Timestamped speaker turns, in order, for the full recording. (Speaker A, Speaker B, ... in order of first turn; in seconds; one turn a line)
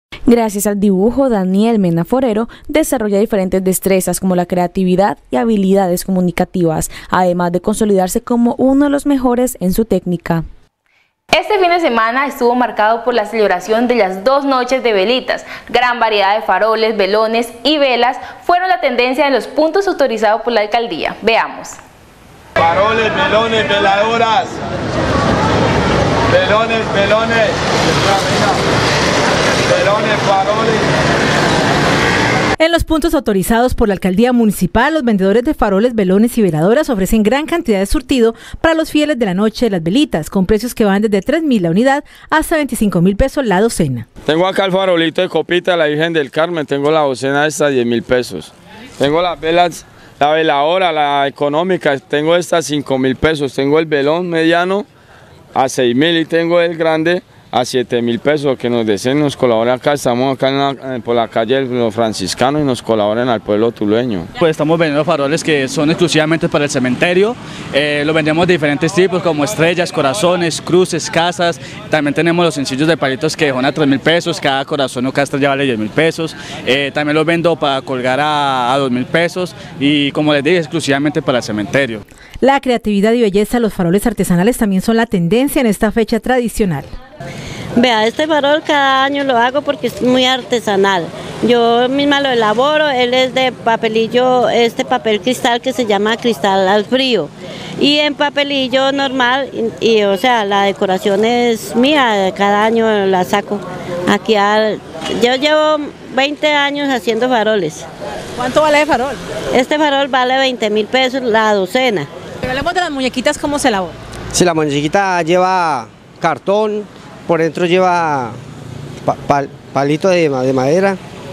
Speaker A: 0.3-10.4
Speaker B: 11.3-21.8
Speaker C: 32.6-44.1
Speaker D: 44.3-54.9
Speaker D: 55.5-64.3
Speaker E: 64.4-82.0
Speaker C: 82.4-86.9
Speaker F: 87.8-107.9
Speaker C: 108.4-109.2
Speaker F: 109.5-112.1
Speaker C: 112.5-114.0
Speaker G: 114.3-118.4
Speaker G: 119.1-121.0